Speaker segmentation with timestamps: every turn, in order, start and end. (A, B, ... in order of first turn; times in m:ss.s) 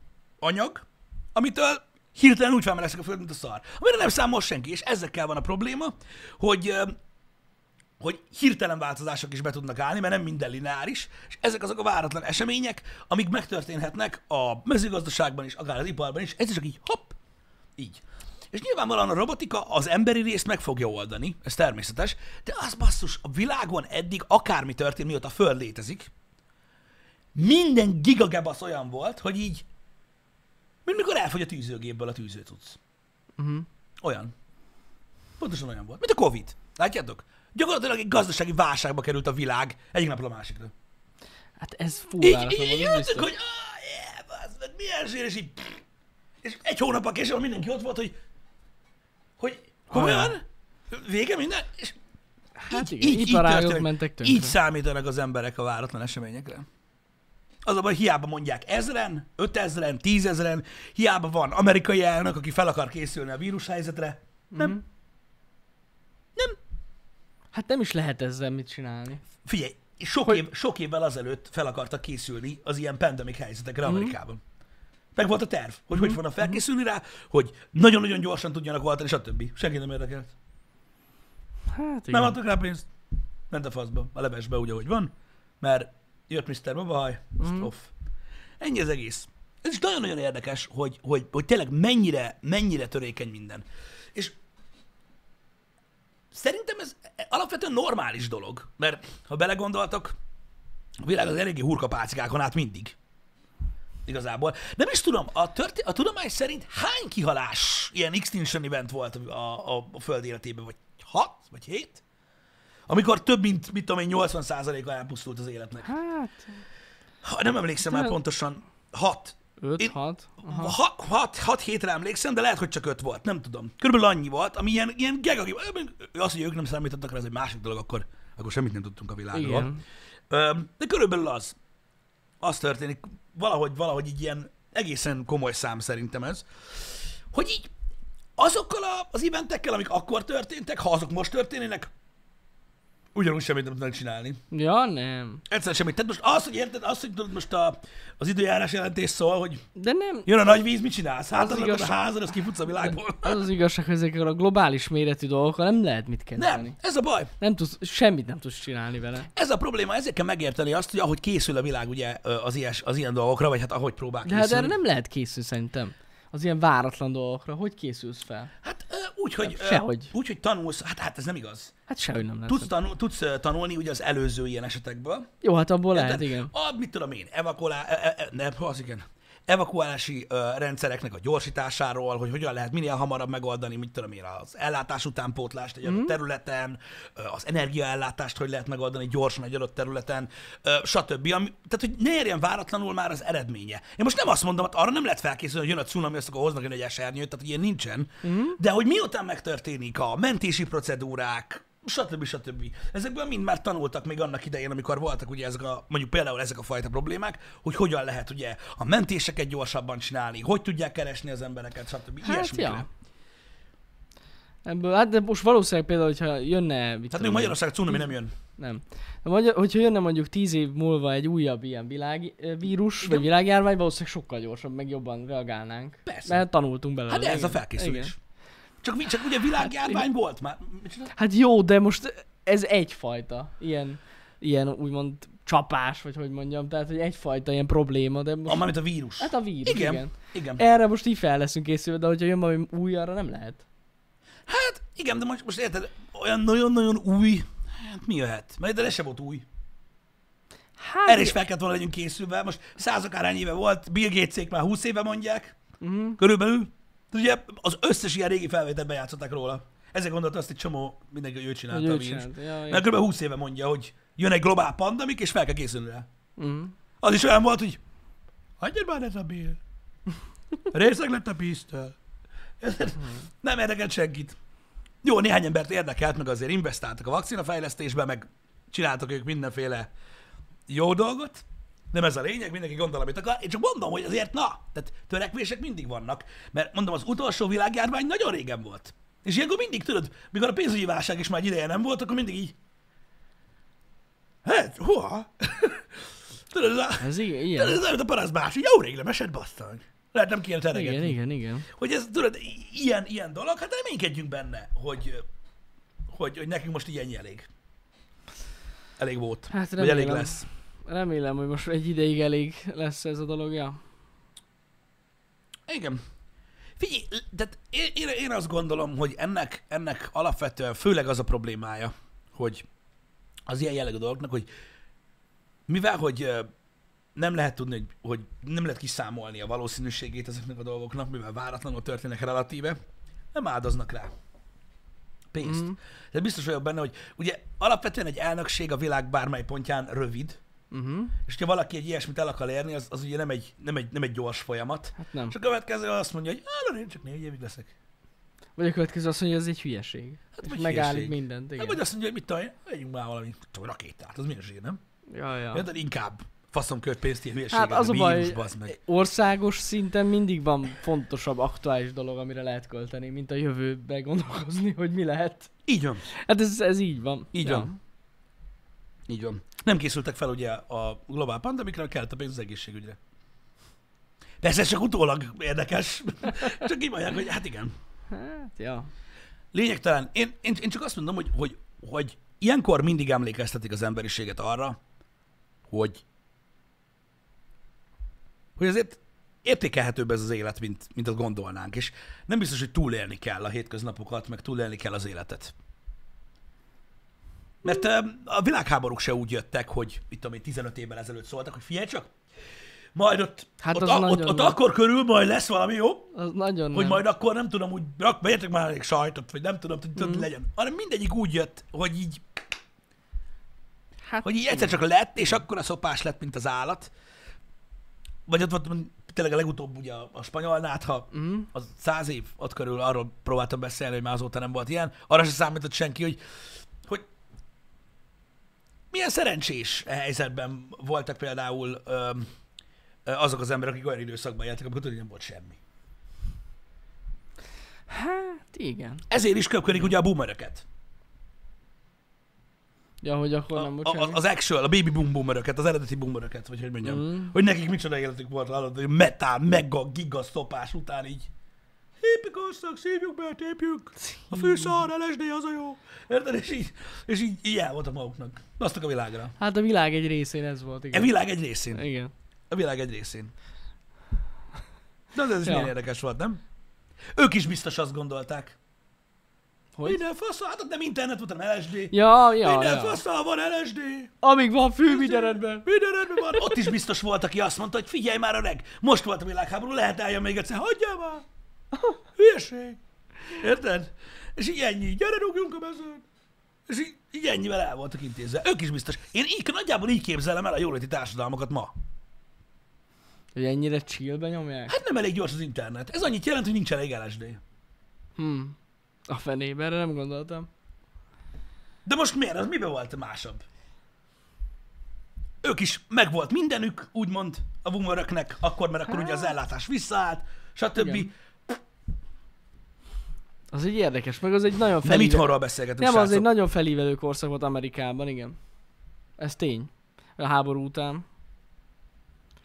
0:00.4-0:07.0 A
0:08.0-0:17.2 A
0:17.8-0:26.1 A
0:27.4-0:29.7 A
0:30.9-0:32.8 A
0:33.4-0:33.7 B
0:34.0-0:34.3 A
0:35.4-0:40.7 A
0:41.6-0:43.3 B
0:42.2-0:45.8 A
0:46.4-0:48.1 A
0:49.4-0:52.0 A
0:49.9-0:50.4 B
0:52.6-0:54.6 B
0:52.7-0:56.7 A
0:57.6-1:04.8 A
1:04.5-1:04.8 B
1:07.5-1:09.2 B
1:09.4-1:14.4 A
1:13.8-1:14.2 B
1:15.2-1:20.3 A
1:15.9-1:16.6 B
1:21.7-1:22.4 B
1:22.1-1:22.9 A
1:23.5-1:27.9 A
1:27.4-1:27.7 B
1:28.6-1:34.4 A
1:36.3-1:40.2 A
1:41.0-1:43.0 A
1:44.1-1:52.0 A
1:52.9-1:56.0 A
1:55.8-1:56.6 B
1:57.2-2:09.7 A
1:57.8-1:58.2 B
1:59.6-2:00.8 B
2:09.3-2:09.8 B
2:10.3-2:11.6 A
2:12.4-2:17.7 A
2:18.4-2:21.9 A
2:23.2-2:24.4 A
2:24.5-2:25.4 B
2:25.5-2:29.6 A
2:29.8-2:30.3 B
2:30.3-2:33.5 A
2:31.3-2:32.0 B
2:32.8-2:36.8 B
2:36.4-2:37.3 A
2:37.4-2:39.3 B
2:39.3-2:44.8 A
2:44.2-2:48.5 B
2:48.6-2:51.7 A
2:49.4-2:50.1 B
2:51.9-2:52.7 B
2:52.5-2:55.3 A
2:55.4-2:56.5 B
2:55.9-3:32.9 A
3:05.8-3:06.2 B
3:18.2-3:18.6 B
3:32.2-3:32.9 B
3:34.6-3:48.1 B
3:37.1-3:38.3 A
3:46.1-3:46.4 A
3:47.1-3:48.2 A
3:48.8-3:51.1 A
3:49.7-3:50.0 B
3:51.1-4:03.6 B
3:58.5-4:00.6 A
4:04.5-4:09.4 A
4:10.8-4:11.4 B
4:11.0-4:15.6 A
4:15.8-4:16.2 B
4:16.2-4:26.1 A
4:21.7-4:22.9 B
4:26.4-4:26.7 B
4:27.0-4:27.8 A
4:28.6-4:29.6 A
4:30.7-4:32.0 A
4:32.6-4:34.4 A
4:35.0-4:39.9 A
4:40.7-4:52.6 A
4:54.4-4:55.9 A
4:56.5-5:01.2 A
4:57.0-4:57.8 B
5:00.7-5:01.7 B
5:01.7-5:05.2 A
5:06.1-5:07.5 A
5:09.0-5:10.5 A
5:09.5-5:13.8 B
5:15.7-5:16.0 A
5:16.8-5:22.7 A
5:23.5-5:24.5 A
5:25.7-5:26.5 A
5:27.2-5:32.8 A
5:33.3-5:34.1 A
5:35.3-5:40.4 A
5:35.4-5:35.8 B
5:40.7-5:41.2 B
5:41.3-5:47.7 A
5:45.0-5:45.4 B
5:48.6-5:51.8 B
5:50.3-5:54.8 A
5:55.1-5:55.6 B
5:55.5-5:58.8 A
5:57.5-6:05.5 B
6:05.7-6:06.1 A
6:06.1-6:07.8 B
6:07.3-6:07.7 A
6:09.1-6:13.0 A
6:14.4-6:17.7 A
6:18.1-6:18.9 B
6:19.5-6:24.8 A
6:25.7-6:26.0 A
6:28.6-6:35.5 A
6:37.6-6:42.1 A
6:43.0-6:46.1 A
6:43.6-6:44.6 B
6:46.1-6:47.0 B
6:46.7-6:52.2 A
6:50.0-6:50.3 B
6:54.1-6:54.8 B
6:54.2-6:56.9 A
6:58.3-7:06.2 A
7:01.1-7:01.5 B
7:08.9-7:12.3 A
7:13.1-7:15.6 A
7:17.9-7:19.0 B
7:19.1-7:20.6 A
7:23.0-7:24.2 B
7:23.6-7:31.3 A
7:26.8-7:27.3 B
7:32.0-7:39.4 A
7:34.2-7:34.8 B
7:39.4-7:41.1 B
7:40.9-7:41.9 A
7:41.7-7:42.1 B
7:42.5-7:43.3 A
7:45.1-7:46.4 A
7:45.4-7:45.7 B
7:47.2-7:48.6 A
7:49.8-7:54.1 A
7:51.9-7:53.0 B
7:54.2-7:56.7 B
7:54.9-8:01.3 A
8:02.2-8:02.8 A
8:03.3-8:06.0 A
8:06.7-8:11.7 A
8:13.4-8:14.7 B
8:14.7-8:17.4 A
8:18.2-8:18.6 B
8:19.1-8:20.5 B
8:21.8-8:23.4 A
8:25.4-8:31.5 A
8:28.9-8:29.3 B
8:30.8-8:31.1 B
8:33.5-8:38.4 B
8:34.8-8:36.3 A
8:39.2-8:41.0 B